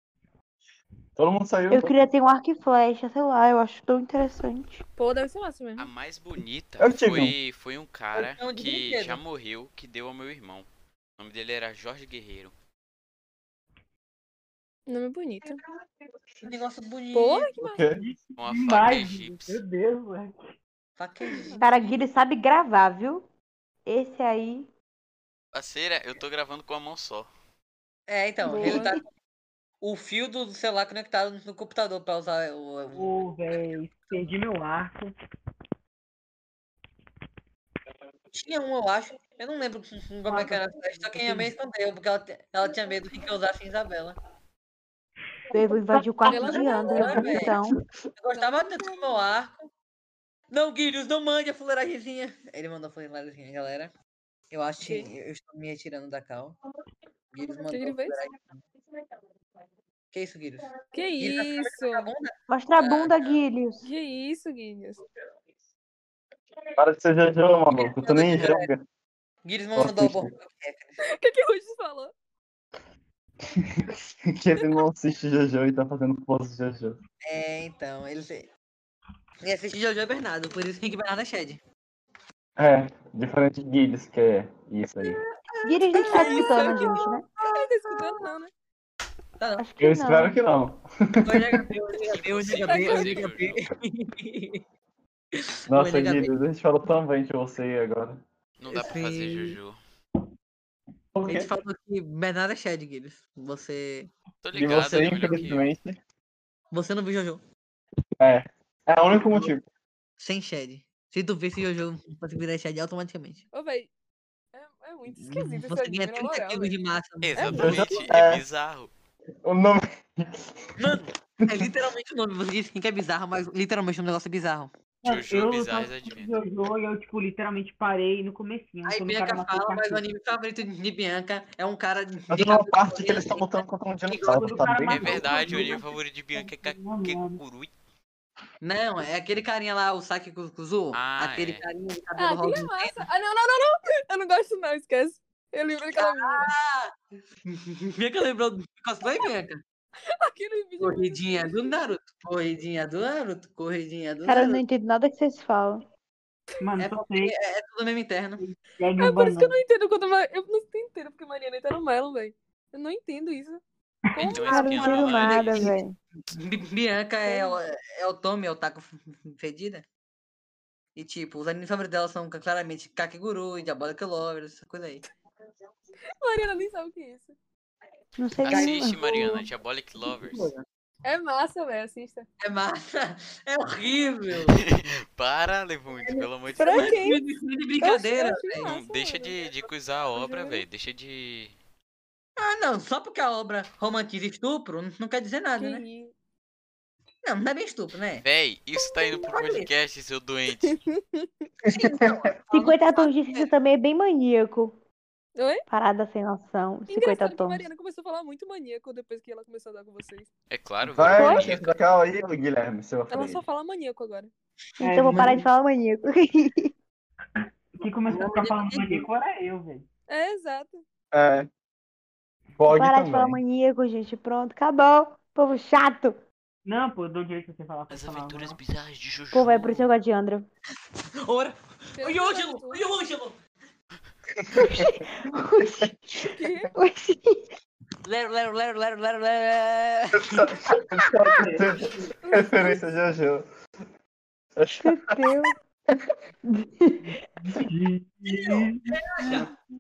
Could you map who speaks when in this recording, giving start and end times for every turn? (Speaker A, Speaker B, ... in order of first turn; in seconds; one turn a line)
Speaker A: 1.2-2.0
Speaker B: 1.7-4.8
Speaker C: 5.0-5.9
Speaker D: 5.8-10.7
Speaker A: 6.8-7.3
Speaker E: 8.2-9.2
Speaker D: 11.2-12.5
Speaker C: 14.9-15.6
Speaker E: 16.4-17.5
Speaker C: 17.1-17.8
Speaker A: 17.6-18.0
Speaker F: 17.9-20.5
Speaker D: 18.4-19.6
Speaker E: 21.0-21.7
Speaker C: 21.3-21.7
Speaker B: 21.6-23.2
Speaker B: 23.9-24.7
Speaker D: 25.5-27.3
Speaker E: 28.1-29.0
Speaker B: 28.4-29.0
Speaker E: 29.8-34.1
Speaker F: 32.9-35.1
Speaker E: 38.3-44.2
Speaker F: 40.3-41.5
Speaker B: 45.5-47.8
Speaker C: 46.2-47.5
Speaker E: 46.3-47.6
Speaker E: 48.2-49.7
Speaker C: 48.3-49.3
Speaker E: 50.5-53.9
Speaker E: 54.5-56.6
Speaker C: 54.8-55.1
Speaker E: 57.3-58.6
Speaker C: 57.6-58.2
Speaker E: 60.1-63.4
Speaker C: 60.9-62.1
Speaker B: 62.5-63.9
Speaker C: 63.8-65.0
Speaker A: 66.8-68.8
Speaker E: 67.7-68.7
Speaker E: 69.5-71.0
Speaker A: 69.8-70.3
Speaker C: 71.0-72.1
Speaker A: 73.8-77.0
Speaker E: 77.2-78.5
Speaker E: 79.4-81.6
Speaker A: 82.6-85.2
Speaker E: 85.0-87.0
Speaker B: 85.6-87.3
Speaker C: 86.0-88.5
Speaker E: 87.9-88.2
Speaker E: 89.4-89.7
Speaker B: 89.6-90.4
Speaker A: 89.8-91.7
Speaker E: 91.2-94.6
Speaker D: 92.2-93.6
Speaker C: 92.6-93.3
Speaker E: 95.3-96.3
Speaker A: 95.7-98.2
Speaker D: 98.6-99.8
Speaker E: 98.7-99.6
Speaker A: 101.1-101.5
Speaker E: 101.3-104.1
Speaker D: 104.4-105.7
Speaker A: 104.5-106.0
Speaker E: 106.7-107.4
Speaker A: 108.2-109.6
Speaker E: 110.2-113.5
Speaker C: 113.5-113.9
Speaker C: 114.5-116.8
Speaker E: 115.2-117.8
Speaker D: 117.2-118.9
Speaker C: 117.4-117.8
Speaker A: 117.5-118.4
Speaker A: 119.4-121.7
Speaker E: 120.8-124.7
Speaker F: 125.0-130.0
Speaker D: 125.0-126.3
Speaker E: 128.9-134.7
Speaker A: 132.3-135.6
Speaker F: 134.3-137.4
Speaker D: 134.9-137.7
Speaker E: 138.6-143.0
Speaker D: 140.9-141.7
Speaker C: 142.2-146.5
Speaker E: 145.9-146.9
Speaker E: 147.5-149.6
Speaker C: 150.2-151.7
Speaker E: 150.8-154.6
Speaker B: 154.3-155.9
Speaker F: 156.6-157.3
Speaker E: 156.8-158.4
Speaker F: 158.4-159.6
Speaker C: 159.0-163.6
Speaker C: 164.1-165.1
Speaker D: 164.2-165.7
Speaker B: 164.4-166.0
Speaker E: 164.7-165.8
Speaker E: 166.3-169.8
Speaker C: 167.3-167.6
Speaker E: 171.0-175.1
Speaker C: 176.2-177.4
Speaker B: 178.2-179.4
Speaker D: 178.4-180.5
Speaker E: 178.5-179.3
Speaker E: 180.0-180.7
Speaker C: 181.1-182.3
Speaker E: 182.4-184.6
Speaker D: 184.5-187.0
Speaker E: 186.1-188.7
Speaker C: 186.6-187.2
Speaker B: 186.7-186.9
Speaker C: 187.8-189.4
Speaker D: 188.6-191.6
Speaker C: 190.2-190.6
Speaker E: 192.4-195.8
Speaker C: 195.6-196.1
Speaker E: 197.2-198.2
Speaker D: 198.2-200.8
Speaker E: 199.3-199.7
Speaker C: 200.6-201.3
Speaker A: 201.7-202.2
Speaker E: 201.7-203.5
Speaker B: 202.5-204.8
Speaker C: 205.4-205.6
Speaker B: 205.7-207.7
Speaker C: 206.9-210.3
Speaker D: 210.5-211.8
Speaker A: 210.8-213.4
Speaker B: 211.1-211.5
Speaker C: 213.1-214.3
Speaker B: 214.8-216.7
Speaker F: 214.8-215.5
Speaker F: 217.8-219.9
Speaker E: 218.1-219.1
Speaker C: 220.1-220.8
Speaker A: 221.1-221.5
Speaker A: 222.6-223.4
Speaker B: 222.7-226.2
Speaker F: 226.7-228.6
Speaker D: 227.9-229.8
Speaker B: 229.3-230.5
Speaker E: 231.2-233.4
Speaker C: 231.9-232.9
Speaker A: 234.4-234.9
Speaker B: 234.6-237.4
Speaker A: 235.7-235.9
Speaker C: 236.3-236.7
Speaker E: 238.1-240.6
Speaker A: 240.1-243.4
Speaker F: 241.3-242.1
Speaker C: 242.2-242.8
Speaker A: 244.6-245.4
Speaker B: 244.8-245.5
Speaker B: 246.5-247.2
Speaker F: 247.0-249.4
Speaker E: 248.3-249.5